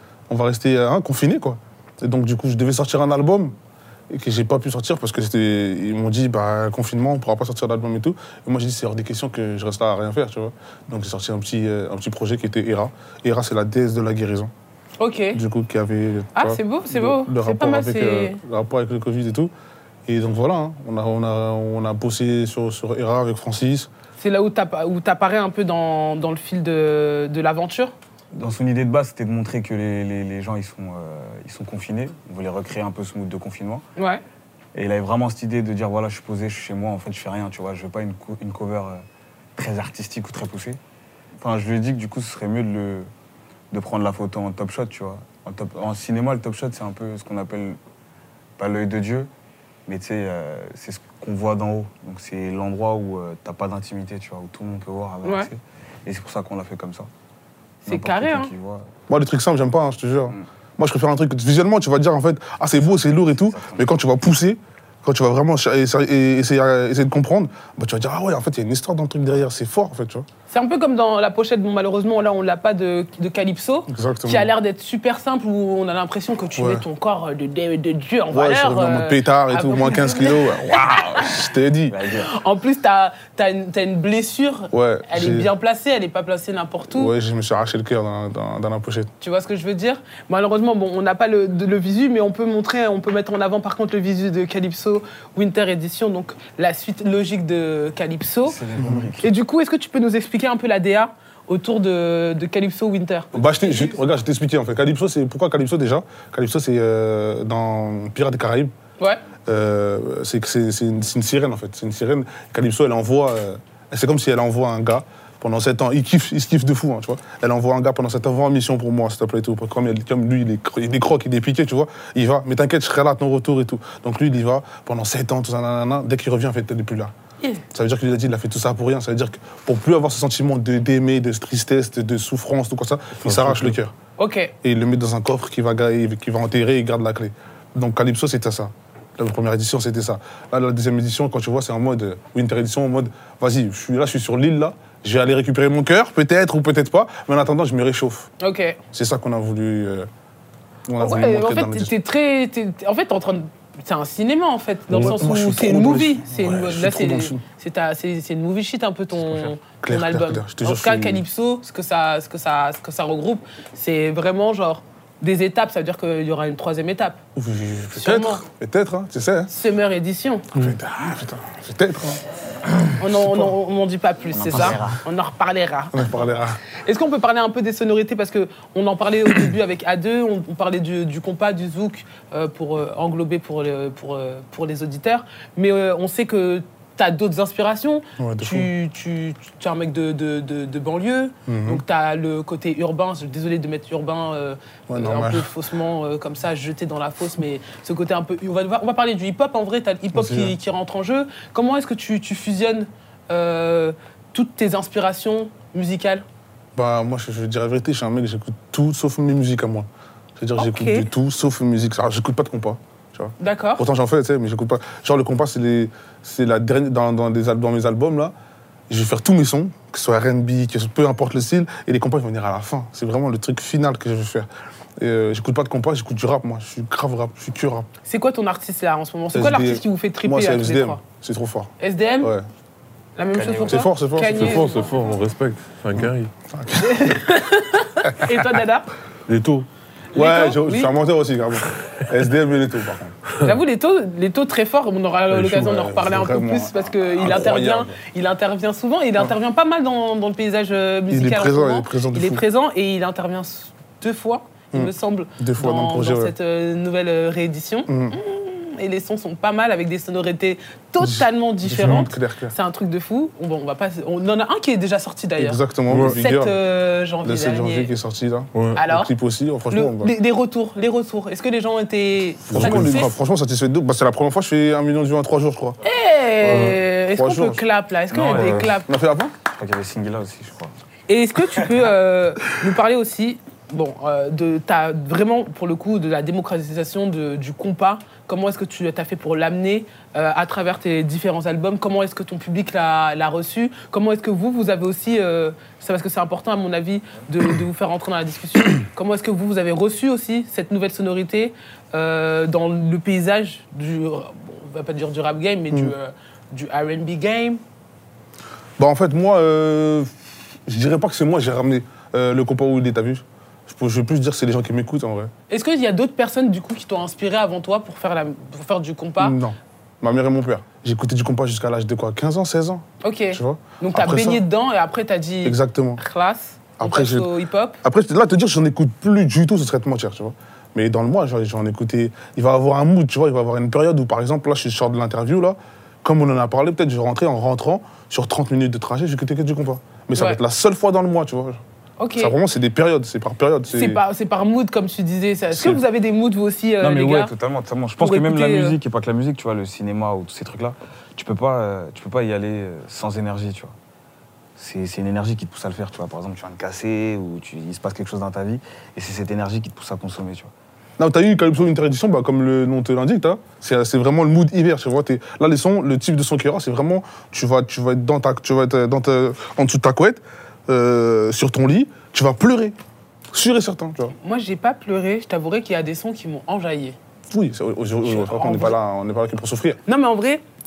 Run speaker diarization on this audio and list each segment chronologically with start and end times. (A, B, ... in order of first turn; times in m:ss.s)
0:00.3-0:03.6 A
0:04.1-0:14.5 A
0:15.0-0:15.4 B
0:15.3-0:19.5 A
0:16.4-0:18.4 B
0:20.1-0:23.9 A
0:24.2-0:27.9 B
0:28.3-0:33.8 C
0:34.0-0:34.2 B
0:34.7-0:39.0 C
0:39.6-0:40.8 C
0:41.4-0:43.1 C
0:43.7-0:47.8 C
0:48.6-0:49.3 C
0:49.9-0:57.1 C
0:55.2-0:55.5 B
0:57.9-0:58.5 B
0:57.9-0:58.9 C
0:59.1-1:10.3 A
1:03.5-1:03.8 C
1:10.5-1:21.2 B
1:13.9-1:14.5 A
1:16.6-1:16.8 A
1:18.3-1:22.0 A
1:21.9-1:22.3 C
1:22.2-1:27.1 B
1:24.7-1:25.5 A
1:26.9-1:29.1 A
1:29.2-1:38.6 B
1:38.5-1:39.3 C
1:38.8-1:39.1 A
1:39.2-1:44.0 B
1:43.3-1:48.7 A
1:49.5-2:07.1 A
2:07.7-2:13.9 A
2:13.3-2:13.8 D
2:14.2-2:14.5 B
2:14.6-2:28.3 A
2:28.4-2:28.8 B
2:28.9-2:30.1 A
2:30.9-2:31.9 A
2:31.0-2:47.2 B
2:34.9-2:37.4 A
2:39.8-2:41.2 A
2:47.4-2:49.5 A
2:47.9-2:48.4 B
2:49.5-2:50.5 B
2:50.5-2:52.2 A
2:53.0-2:56.0 B
2:53.0-2:53.5 A
2:54.3-2:55.0 C
2:55.9-2:56.6 A
2:56.8-3:26.2 B
3:08.2-3:08.7 A
3:11.5-3:11.8 A
3:14.9-3:15.5 A
3:20.1-3:20.6 A
3:26.8-3:38.3 A
3:30.6-3:31.1 B
3:33.4-3:33.9 B
3:38.9-3:44.5 A
3:45.0-3:47.9 A
3:48.1-3:51.0 B
3:49.3-3:52.5 A
3:51.8-3:52.3 B
3:53.2-3:54.9 B
3:53.3-3:53.8 C
3:53.7-3:54.5 A
3:54.3-3:56.3 D
3:56.0-3:57.0 A
3:56.7-3:58.9 B
3:58.1-3:58.4 A
3:59.3-3:59.7 D
4:00.1-4:00.9 B
4:00.2-4:03.2 A
4:03.4-4:27.9 B
4:05.3-4:08.0 A
4:11.1-4:12.4 A
4:14.7-4:16.3 A
4:17.9-4:18.2 A
4:21.0-4:22.5 A
4:21.8-4:22.1 D
4:25.4-4:26.6 A
4:25.9-4:26.2 D
4:27.2-4:30.1 A
4:28.5-4:28.8 D
4:28.8-4:29.1 B
4:29.7-4:33.2 B
4:32.5-4:33.0 D
4:32.5-4:35.8 A
4:35.8-4:38.9 B
4:36.5-4:36.8 D
4:36.5-4:37.6 A
4:38.1-4:38.8 C
4:38.9-4:39.4 A
4:39.5-4:40.7 C
4:41.1-5:07.6 B
5:08.8-5:15.3 A
5:15.5-5:19.4 B
5:19.2-5:24.4 A
5:23.0-5:27.8 B
5:25.4-5:26.0 A
5:26.8-5:27.3 A
5:27.8-5:41.6 A
5:42.0-5:42.4 B
5:42.2-5:44.0 A
5:43.7-5:47.3 B
5:45.5-5:45.8 A
5:46.8-5:53.8 C
5:48.0-5:48.8 B
5:54.6-6:00.5 C
6:01.0-6:12.8 A
6:13.3-6:14.2 A
6:14.2-6:17.0 B
6:17.3-6:19.8 A
6:18.0-6:18.8 B
6:19.9-6:20.4 B